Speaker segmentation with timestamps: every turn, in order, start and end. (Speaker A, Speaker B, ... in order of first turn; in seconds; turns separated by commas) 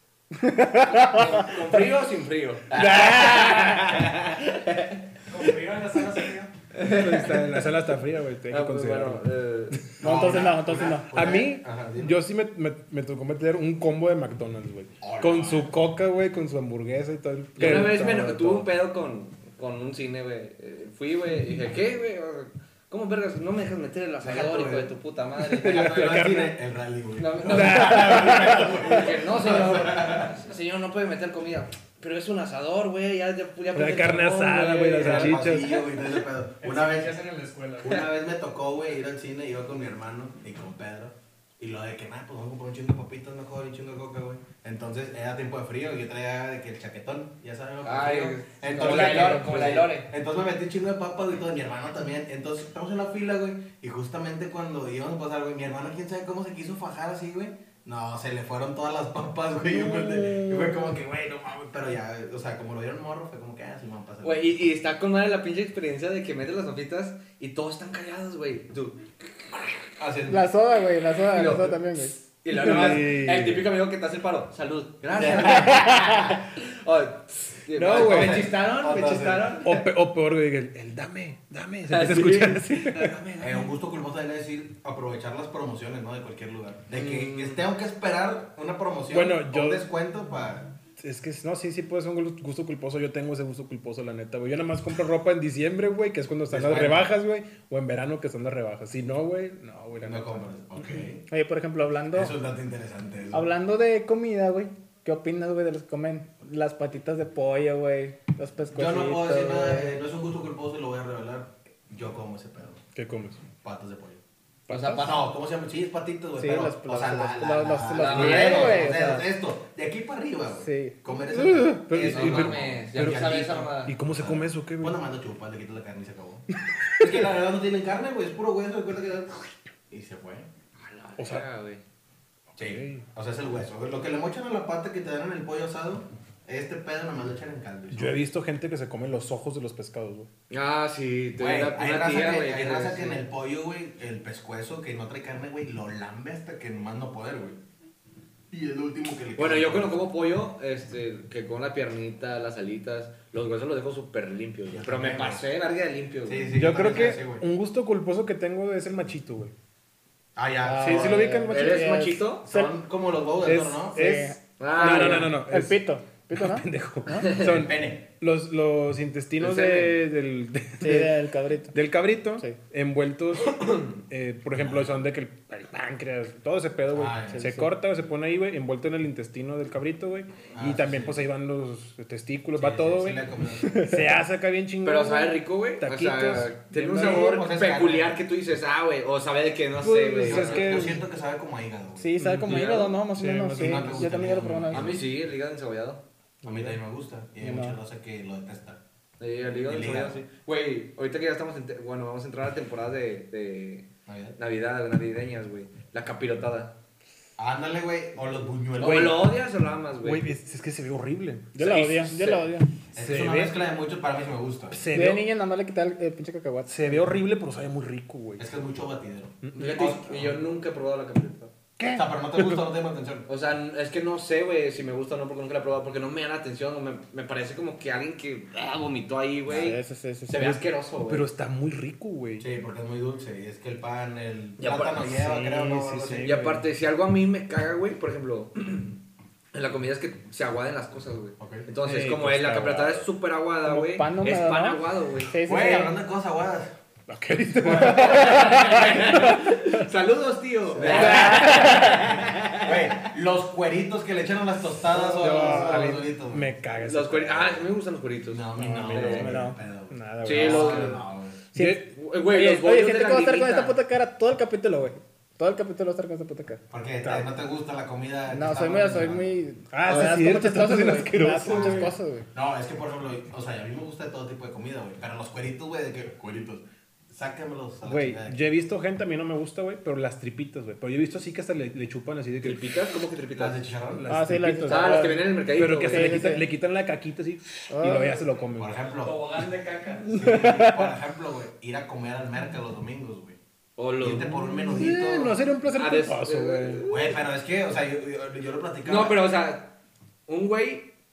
Speaker A: 0.4-1.4, Speaker B: 0.9-5.0, Speaker C: 2.7-4.1, Speaker D: 5.3-6.5, Speaker B: 6.7-7.8, Speaker C: 6.8-9.8, Speaker B: 8.5-9.8, Speaker A: 10.0-11.3, Speaker E: 10.0-12.2, Speaker C: 11.1-18.7, Speaker E: 15.0-15.7, Speaker B: 17.6-26.4, Speaker E: 24.2-24.9, Speaker C: 25.4-26.6, Speaker E: 25.5-30.3, Speaker B: 27.2-36.2, Speaker C: 27.4-29.1, Speaker C: 33.7-35.8, Speaker E: 35.0-37.2, Speaker D: 36.6-37.9, Speaker E: 37.8-64.4, Speaker B: 47.8-50.1, Speaker C: 48.8-49.2, Speaker A: 59.9-60.9, Speaker B: 64.2-69.7, Speaker E: 70.0-70.5, Speaker A: 70.3-72.2, Speaker B: 71.3-79.8, Speaker C: 72.5-73.7, Speaker E: 75.1-76.4, Speaker C: 77.7-78.5, Speaker E: 77.9-79.6, Speaker C: 79.6-83.2, Speaker B: 81.9-83.7, Speaker E: 83.4-90.7, Speaker B: 86.9-87.6, Speaker C: 89.1-89.8, Speaker C: 91.0-101.1, Speaker E: 96.5-97.1, Speaker E: 100.0-101.2, Speaker A: 101.3-102.3, Speaker E: 102.1-103.5, Speaker A: 103.3-109.9, Speaker E: 108.7-112.8, Speaker C: 113.0-113.4, Speaker E: 113.6-114.2, Speaker C: 114.7-115.0, Speaker B: 114.7-115.3, Speaker E: 114.9-130.5, Speaker A: 116.4-119.3, Speaker B: 117.9-119.0, Speaker A: 120.6-121.0, Speaker C: 121.3-125.0, Speaker B: 121.9-124.0, Speaker B: 130.8-131.8, Speaker C: 131.2-131.5, Speaker C: 132.5-133.1, Speaker E: 132.6-138.2, Speaker C: 137.9-140.3, Speaker B: 140.5-143.3, Speaker E: 141.4-147.6, Speaker E: 148.5-150.0, Speaker B: 149.4-156.6, Speaker E: 154.7-155.4, Speaker E: 156.3-157.4, Speaker C: 156.5-159.5, Speaker E: 160.4-161.3, Speaker A: 160.6-162.7, Speaker C: 160.8-162.0, Speaker B: 161.5-162.7, Speaker E: 162.4-164.1, Speaker C: 163.4-183.3, Speaker A: 163.9-167.3, Speaker B: 164.6-165.4, Speaker B: 167.2-167.7, Speaker E: 167.4-168.0, Speaker B: 169.4-170.0, Speaker A: 170.8-171.8, Speaker E: 174.6-174.9, Speaker E: 176.9-177.6, Speaker A: 177.3-177.7, Speaker E: 180.6-181.2, Speaker E: 182.6-183.9, Speaker A: 183.6-184.1, Speaker C: 183.8-187.3, Speaker B: 184.8-190.9, Speaker E: 186.9-188.2, Speaker C: 189.8-191.0, Speaker E: 190.2-192.1, Speaker A: 192.0-194.9, Speaker C: 192.2-194.2, Speaker B: 192.4-193.0, Speaker E: 193.6-195.1, Speaker B: 194.7-196.0, Speaker C: 196.4-196.8, Speaker E: 196.4-198.8, Speaker A: 197.4-197.8, Speaker B: 199.2-206.8, Speaker E: 199.7-200.2, Speaker E: 204.1-204.3, Speaker E: 207.4-209.3, Speaker B: 208.8-210.2, Speaker C: 208.8-209.2, Speaker C: 210.0-211.7, Speaker A: 211.6-212.7, Speaker B: 211.6-212.5, Speaker E: 212.9-214.8, Speaker C: 212.9-213.6, Speaker C: 214.7-215.2, Speaker A: 214.9-217.1, Speaker C: 216.7-218.4, Speaker E: 218.4-220.3, Speaker C: 219.4-220.0, Speaker B: 219.6-221.5, Speaker C: 221.8-222.7, Speaker E: 221.9-223.3, Speaker B: 223.3-231.3, Speaker E: 229.5-229.8, Speaker A: 229.5-230.6, Speaker C: 231.1-232.5, Speaker E: 232.4-236.3, Speaker B: 234.6-235.6, Speaker C: 235.3-236.7, Speaker B: 236.2-239.0, Speaker B: 239.5-245.4, Speaker E: 241.4-241.7, Speaker C: 241.8-243.1, Speaker A: 243.7-245.9, Speaker E: 245.4-246.7, Speaker C: 247.1-249.6, Speaker E: 247.6-248.9, Speaker B: 247.8-253.0, Speaker A: 248.1-248.6, Speaker E: 250.7-256.5, Speaker A: 250.8-252.0, Speaker C: 250.8-252.0, Speaker A: 254.9-256.0, Speaker C: 255.2-257.6, Speaker B: 256.9-259.3, Speaker E: 258.3-261.4, Speaker C: 258.6-261.0, Speaker A: 259.1-259.6, Speaker B: 260.2-261.0, Speaker A: 261.5-266.6, Speaker C: 261.6-261.9, Speaker B: 261.9-263.8, Speaker E: 266.7-269.3, Speaker C: 267.0-267.3, Speaker A: 268.3-272.3, Speaker C: 269.7-271.9, Speaker E: 271.5-278.4, Speaker C: 277.9-282.7, Speaker B: 282.4-283.7, Speaker E: 283.4-284.1, Speaker C: 283.9-288.9, Speaker A: 284.1-285.4, Speaker B: 284.7-286.2, Speaker A: 285.9-286.4, Speaker A: 287.7-288.2, Speaker E: 288.6-289.4, Speaker D: 288.9-290.3, Speaker E: 290.1-293.4, Speaker A: 290.1-290.9, Speaker B: 293.8-294.7, Speaker E: 294.0-295.4, Speaker C: 294.7-296.9, Speaker B: 295.7-297.2, Speaker E: 296.9-299.3, Speaker B: 298.9-299.8, Speaker B: 300.3-300.9